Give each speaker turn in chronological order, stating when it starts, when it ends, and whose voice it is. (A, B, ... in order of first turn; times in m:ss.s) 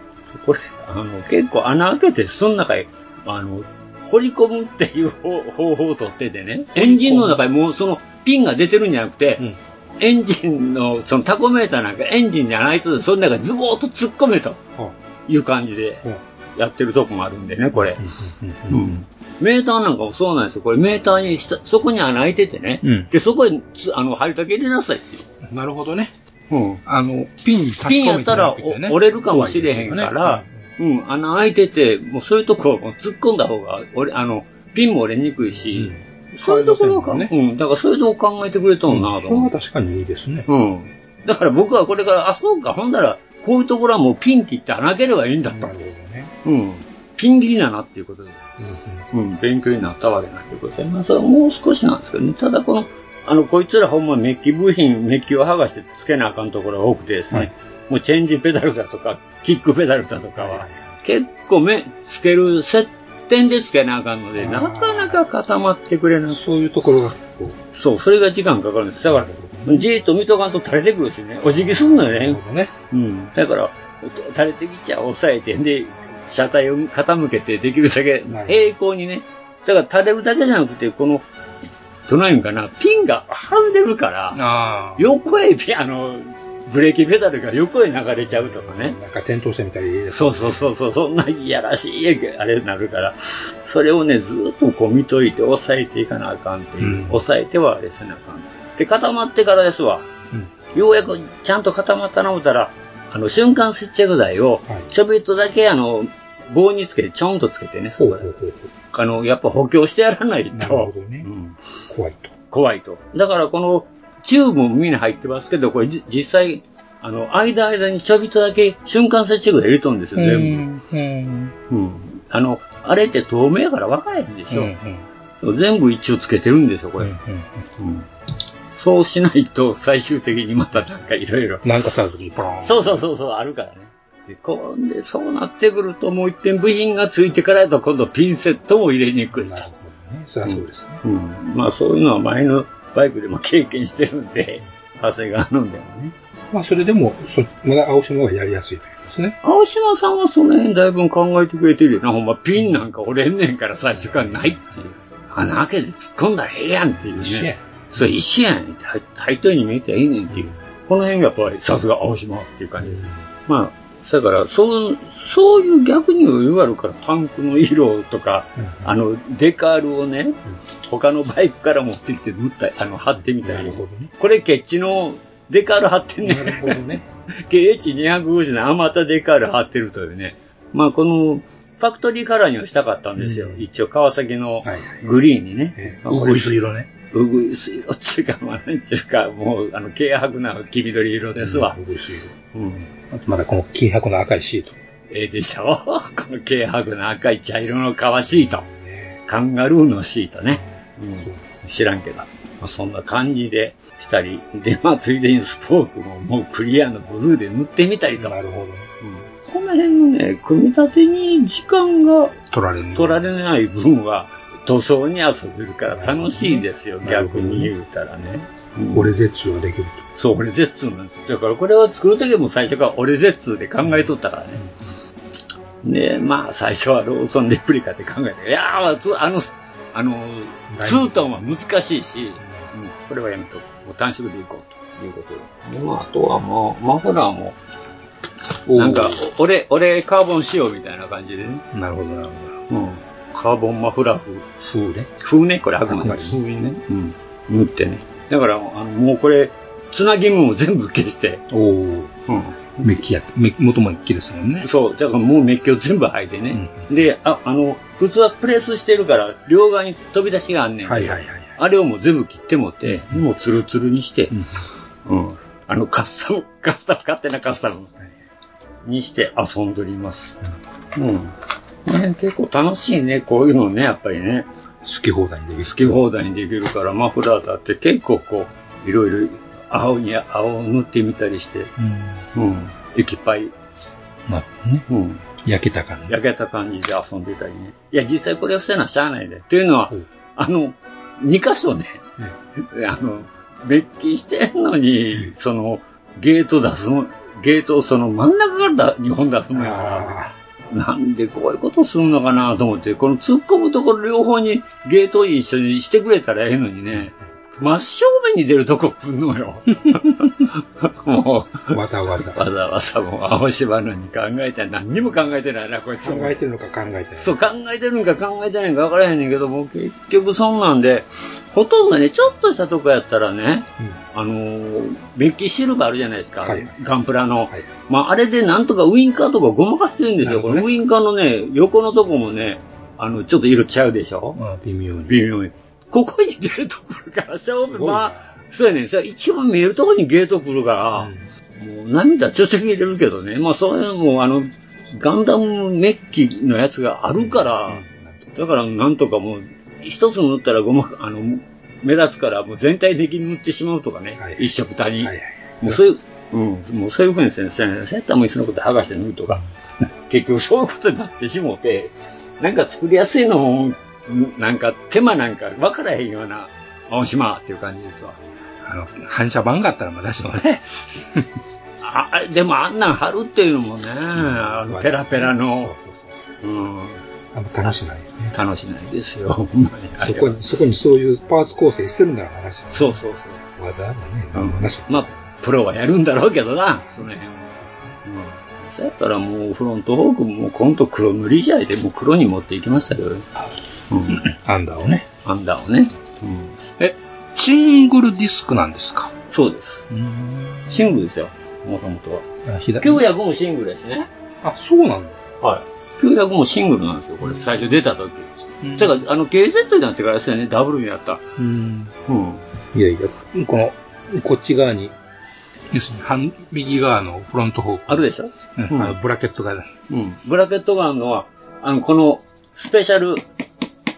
0:00.3-0:09.4 A
0:06.7-0:07.4 B
0:10.0-0:14.6 A
0:15.3-0:16.0 A
0:16.6-0:18.0 A
0:17.7-0:19.0 B
0:18.7-0:25.2 A
0:22.8-0:23.1 B
0:25.4-0:26.1 B
0:26.5-0:26.8 A
0:26.8-0:30.6 B
0:27.8-0:39.5 A
0:35.4-0:37.3 B
0:38.9-0:40.5 B
0:40.5-0:45.7 A
0:45.5-0:46.3 B
0:46.4-0:48.4 A
0:48.6-0:49.0 B
0:49.1-1:06.4 A
1:00.4-1:01.0 B
1:04.4-1:05.2 B
1:06.3-1:07.6 B
1:07.7-1:21.3 A
1:09.0-1:09.9 B
1:11.4-1:12.7 B
1:18.3-1:18.7 B
1:22.1-1:24.4 A
1:24.3-1:25.2 B
1:25.0-1:29.0 A
1:28.3-1:30.7 B
1:30.1-1:40.1 A
1:36.8-1:37.2 B
1:40.7-1:48.3 A
1:48.0-1:48.7 B
1:48.9-1:51.6 A
1:50.5-1:51.3 B
1:51.9-1:52.3 B
1:52.5-2:00.7 A
2:00.2-2:01.5 B
2:01.7-2:04.7 A
2:04.5-2:05.0 B
2:05.4-2:07.1 A
2:07.0-2:07.6 B
2:07.8-2:08.1 A
2:08.8-2:11.6 A
2:11.6-2:13.0 B
2:12.6-2:19.7 A
2:19.3-2:21.0 B
2:20.4-2:26.1 A
2:26.5-2:29.4 B
2:29.4-2:56.8 A
2:33.9-2:35.0 B
2:37.0-2:38.2 B
2:40.3-2:40.6 B
2:42.8-2:43.2 B
2:48.6-2:48.9 B
2:53.2-2:54.1 B
2:56.2-2:57.1 B
2:57.5-3:06.5 A
3:03.2-3:03.7 B
3:04.6-3:04.9 B
3:05.8-3:06.9 B
3:07.1-3:11.8 A
3:11.4-3:12.3 B
3:12.5-3:12.9 A
3:13.1-3:14.8 B
3:15.1-3:18.6 A
3:18.3-3:19.2 B
3:19.3-3:28.3 A
3:20.5-3:21.4 B
3:28.2-3:28.9 B
3:29.0-3:32.4 A
3:32.5-3:33.2 B
3:32.9-3:39.1 A
3:35.9-3:37.7 B
3:38.9-3:40.0 B
3:40.2-3:44.6 A
3:43.8-3:44.8 B
3:45.8-3:57.6 A
3:50.7-3:51.6 B
3:52.4-3:52.7 B
3:58.6-3:59.2 B
3:58.8-4:01.6 A
4:01.7-4:02.6 B
4:02.7-4:04.5 A
4:04.6-4:05.1 B
4:05.2-4:11.4 A
4:05.8-4:06.4 B
4:11.5-4:12.2 B
4:12.3-4:12.8 A
4:12.8-4:14.7 B
4:14.6-4:24.3 A
4:16.5-4:17.0 B
4:20.8-4:21.6 B
4:22.8-4:23.2 B
4:24.3-4:24.6 B
4:25.0-4:27.9 A
4:28.8-4:30.4 A
4:31.0-4:31.3 A
4:31.8-4:34.5 A
4:34.8-4:36.0 B
4:35.6-4:41.7 A
4:41.8-4:42.2 B
4:42.3-4:43.5 A
4:44.3-4:44.9 B
4:44.9-4:45.2 A
4:45.4-4:46.2 B
4:46.1-4:52.0 A
4:52.6-5:00.2 A
4:59.5-5:00.3 B
5:00.7-5:16.4 A
5:11.7-5:12.4 B
5:16.0-5:17.3 B
5:17.2-5:34.4 A
5:26.4-5:26.7 B
5:30.2-5:30.7 B
5:34.3-5:35.2 B
5:35.1-5:47.8 A
5:37.7-5:38.4 B
5:40.9-5:41.3 B
5:47.1-5:48.4 B
5:48.4-5:59.4 A
5:54.2-5:55.8 B
6:00.1-6:08.2 A
6:08.6-6:11.3 B
6:11.8-6:15.7 A
6:14.2-6:16.4 B
6:16.4-6:17.0 A
6:17.3-6:18.3 B
6:18.3-6:20.4 A
6:20.0-6:23.0 B
6:22.7-6:23.4 A
6:23.6-6:25.3 B
6:24.3-6:33.3 A
6:27.7-6:27.9 B
6:33.9-6:34.3 A
6:34.1-6:35.1 B
6:35.2-6:36.5 A
6:36.8-6:39.1 B
6:39.3-6:39.8 A
6:39.9-6:41.0 B
6:40.7-6:42.2 A
6:42.4-6:43.0 B
6:42.8-6:44.1 A
6:44.4-6:45.2 B
6:45.4-6:51.2 A
6:47.2-6:47.7 B
6:48.6-6:49.0 B
6:51.4-6:51.9 B
6:52.1-6:52.4 A
6:52.7-6:54.9 B
6:55.7-6:59.7 B
6:57.9-6:59.0 A
6:59.9-7:03.2 A